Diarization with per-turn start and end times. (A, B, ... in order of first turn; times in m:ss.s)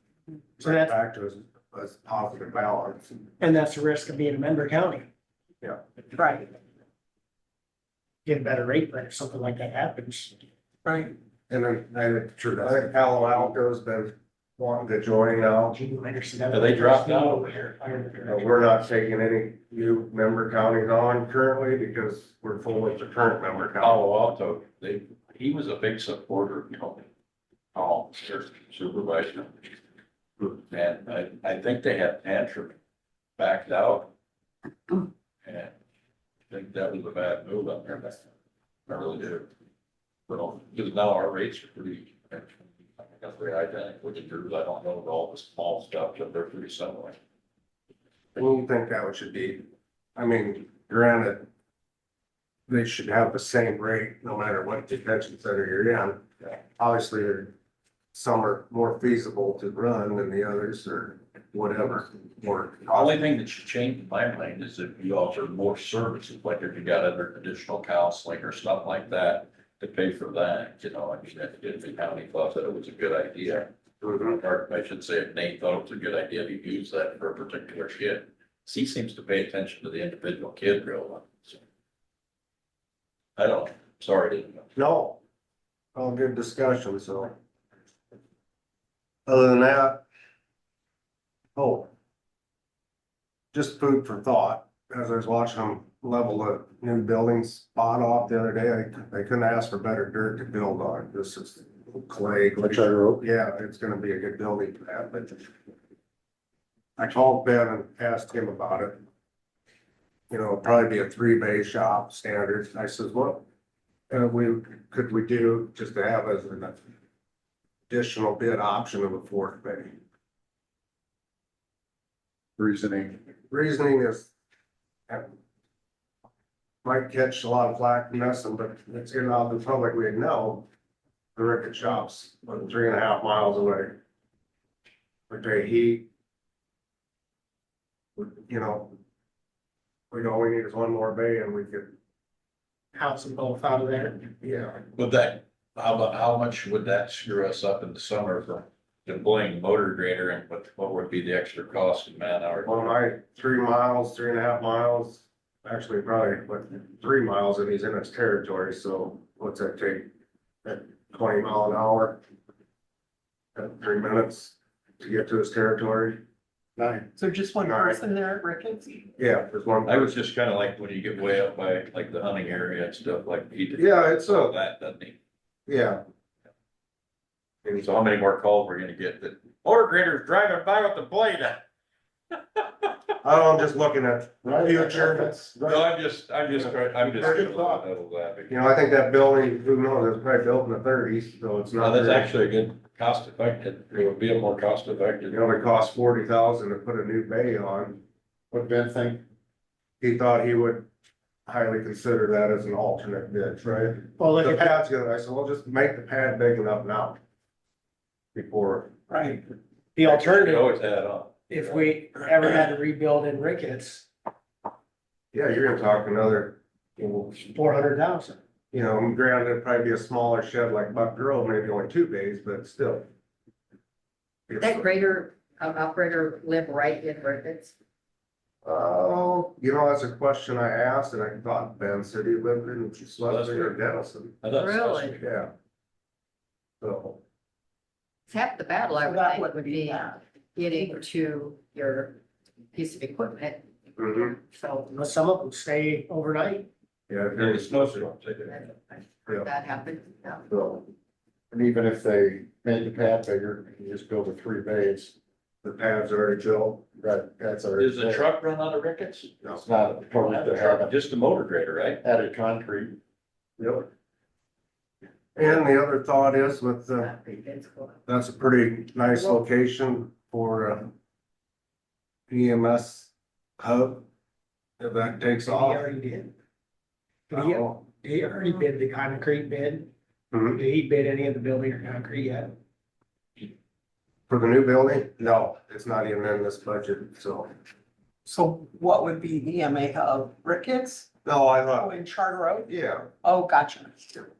0:00.6-0:03.1 A
0:00.6-0:01.0 B
0:03.4-0:05.1 B
0:06.1-0:06.4 C
0:08.2-0:10.3 B
0:10.8-0:11.1 C
0:11.5-0:15.8 A
0:15.7-0:18.5 B
0:16.5-0:17.6 D
0:18.3-0:24.0 A
0:23.8-0:27.0 D
0:27.7-0:29.7 D
0:30.7-0:32.8 D
0:33.4-0:34.1 D
0:35.4-0:35.7 D
0:36.5-0:38.2 D
0:38.9-0:39.5 D
0:40.3-0:47.2 D
0:48.3-0:49.6 A
0:50.2-0:51.5 A
0:52.7-0:57.5 A
0:58.1-1:03.2 A
1:02.9-1:21.6 D
1:14.0-1:14.3 A
1:23.4-1:24.7 D
1:24.8-1:25.2 A
1:25.9-1:27.3 A
1:29.2-1:30.0 A
1:31.6-1:31.9 A
1:33.5-1:45.5 A
1:42.6-1:43.2 E
1:47.0-1:49.0 A
1:50.3-1:53.4 A
1:54.1-1:56.8 A
1:57.9-1:59.9 A
2:02.6-2:03.2 E
2:03.5-2:04.3 A
2:06.8-2:10.6 A
2:11.4-2:14.0 A
2:15.3-2:16.0 A
2:18.2-2:19.0 A
2:20.1-2:21.9 A
2:22.9-2:24.2 B
2:24.4-2:24.8 A
2:24.9-2:32.8 D
2:32.6-2:40.1 A
2:40.6-2:42.2 A
2:43.5-2:46.2 A
2:46.8-2:47.1 E
2:47.2-2:49.1 C
2:47.6-2:48.0 A
2:49.2-2:50.2 A
2:49.8-2:55.2 D
2:53.8-2:54.5 A
2:55.7-2:56.0 A
2:57.8-3:01.6 D
3:02.6-3:02.9 D
3:03.2-3:05.5 A
3:04.4-3:05.9 E
3:05.6-3:08.6 D
3:07.0-3:07.8 E
3:07.0-3:07.7 A
3:08.5-3:12.3 A
3:11.8-3:15.4 D
3:15.3-3:18.0 A
3:18.5-3:19.2 E
3:20.0-3:20.9 A
3:21.4-3:27.2 A
3:24.2-3:24.7 B
3:28.3-3:28.9 A
3:29.1-3:29.4 C
3:29.9-3:30.7 B
3:30.0-3:31.9 D
3:31.5-3:34.1 B
3:35.3-3:37.3 A
3:37.3-3:38.4 B
3:38.7-3:43.0 A
3:44.5-3:44.9 A
3:44.6-3:47.7 F
3:48.6-3:54.4 A
3:53.2-3:53.8 D
3:54.4-3:55.2 D
3:54.5-3:55.2 F
3:55.2-3:55.5 A
3:56.8-3:57.2 A
3:58.3-4:02.2 F
3:59.0-4:00.2 C
4:02.7-4:04.9 F
4:04.0-4:04.3 A
4:04.9-4:06.7 B
4:07.1-4:08.1 A
4:07.3-4:08.7 D
4:08.5-4:10.4 F
4:10.5-4:10.9 E
4:11.5-4:15.2 E
4:15.6-4:16.9 A
4:17.0-4:18.2 E
4:17.8-4:19.4 D
4:19.4-4:20.9 E
4:20.1-4:22.0 D
4:22.0-4:23.0 E
4:23.6-4:23.9 A
4:25.3-4:27.1 A
4:27.0-4:28.0 F
4:28.1-4:30.9 A
4:32.3-4:34.0 A
4:34.8-4:35.8 A
4:35.4-4:36.3 B
4:37.3-4:39.9 B
4:37.3-4:37.7 A
4:40.3-4:40.6 A
4:40.5-4:42.5 B
4:44.3-4:47.5 A
4:48.2-4:51.1 C
4:51.2-4:52.0 A
4:51.7-4:52.7 C
4:52.7-4:53.1 A
4:53.2-4:54.2 C